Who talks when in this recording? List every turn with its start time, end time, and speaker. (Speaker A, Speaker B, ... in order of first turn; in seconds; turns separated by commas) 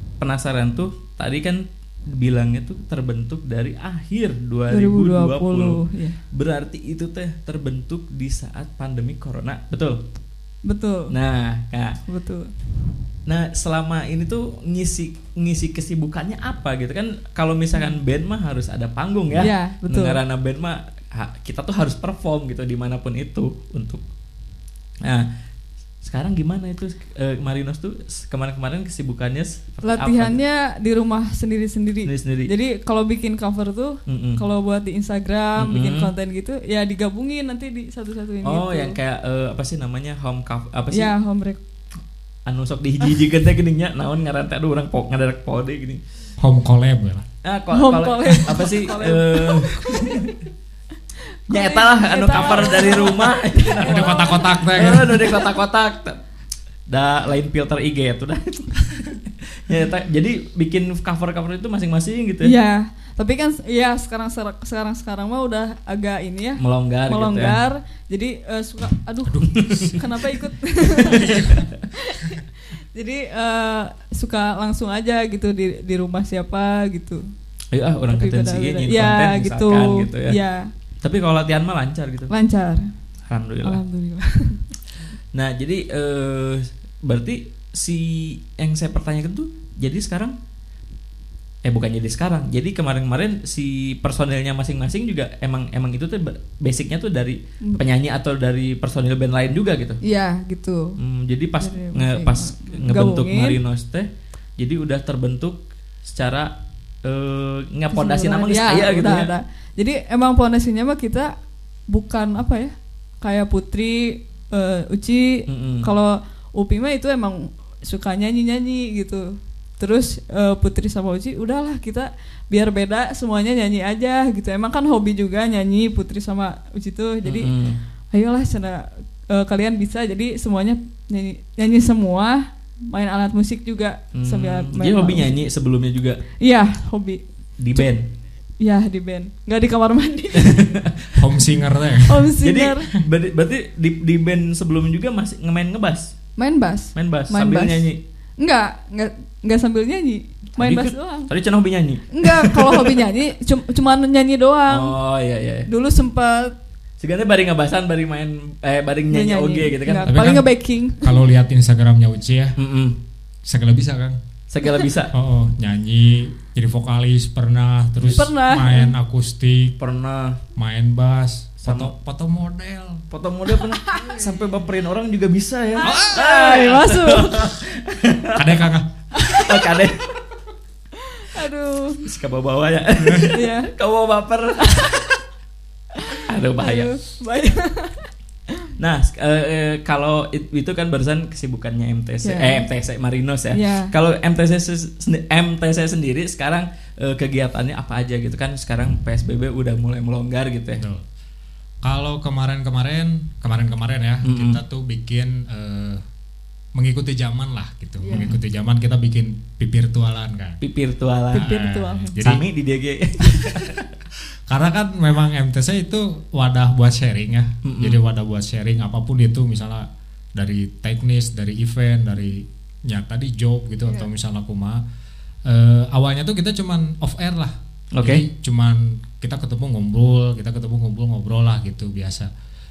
Speaker A: 0.2-10.0, Speaker B: 4.7-6.2, Speaker B: 10.7-11.1, Speaker A: 11.1-12.0, Speaker B: 12.1-12.5, Speaker A: 13.2-24.0, Speaker B: 19.4-20.2, Speaker A: 26.0-30.4, Speaker B: 29.8-39.0, Speaker A: 32.0-32.5, Speaker A: 34.1-34.4, Speaker A: 35.6-36.1, Speaker A: 38.4-41.1, Speaker B: 40.9-41.6, Speaker A: 42.5-46.0, Speaker C: 46.4-47.2, Speaker A: 47.4-50.3, Speaker B: 47.7-50.3, Speaker B: 51.5-55.4, Speaker A: 51.5-56.2, Speaker C: 53.8-55.3, Speaker A: 56.9-62.5, Speaker B: 62.4-77.2, Speaker A: 66.6-67.6, Speaker C: 69.2-70.0, Speaker A: 69.5-70.0, Speaker A: 71.1-71.8, Speaker C: 71.1-71.7, Speaker A: 77.7-80.4, Speaker B: 78.1-80.7, Speaker A: 81.0-82.3, Speaker B: 82.3-82.9, Speaker A: 83.3-83.8, Speaker B: 83.6-84.7, Speaker A: 85.3-90.3, Speaker A: 91.6-100.0, Speaker B: 100.0-101.0, Speaker A: 101.0-106.5, Speaker B: 101.6-103.6, Speaker A: 107.0-109.3, Speaker B: 107.9-111.3, Speaker B: 111.9-127.5, Speaker A: 115.5-115.9, Speaker A: 127.2-127.8, Speaker B: 128.1-135.4, Speaker A: 134.1-136.2, Speaker B: 136.4-137.2, Speaker A: 137.6-138.1, Speaker B: 138.6-140.8, Speaker A: 140.4-141.2, Speaker C: 141.2-142.3, Speaker B: 142.0-142.9, Speaker A: 142.4-146.2, Speaker B: 146.4-151.3, Speaker A: 146.9-148.0, Speaker A: 150.6-153.0, Speaker B: 152.1-154.9, Speaker A: 154.7-155.7, Speaker B: 155.7-156.5, Speaker A: 157.0-160.2, Speaker B: 159.1-161.2, Speaker C: 160.1-160.4, Speaker C: 161.0-162.6, Speaker A: 162.6-162.9, Speaker C: 163.4-164.2, Speaker A: 164.5-165.1, Speaker C: 165.1-169.7, Speaker B: 168.0-168.9, Speaker A: 169.8-170.4, Speaker C: 170.6-173.0, Speaker A: 171.6-171.9, Speaker A: 173.1-178.7, Speaker B: 173.7-174.2, Speaker B: 175.8-177.6, Speaker C: 175.8-176.2, Speaker C: 178.3-178.9, Speaker B: 179.1-179.6, Speaker A: 179.2-180.1, Speaker B: 181.0-182.1, Speaker A: 182.0-185.2, Speaker B: 183.3-183.7, Speaker B: 184.6-184.9, Speaker B: 186.0-188.7, Speaker A: 186.2-186.9, Speaker A: 188.8-200.8, Speaker B: 192.2-192.7, Speaker B: 193.5-193.9, Speaker C: 200.8-201.1, Speaker C: 201.8-206.0, Speaker A: 204.2-204.6, Speaker C: 206.7-210.6, Speaker B: 208.0-208.3, Speaker A: 208.1-208.4, Speaker A: 210.6-211.5, Speaker B: 211.3-212.2, Speaker C: 211.4-212.4, Speaker A: 212.2-213.9, Speaker C: 214.5-224.8, Speaker A: 217.6-218.0, Speaker C: 225.4-232.3, Speaker A: 227.9-228.2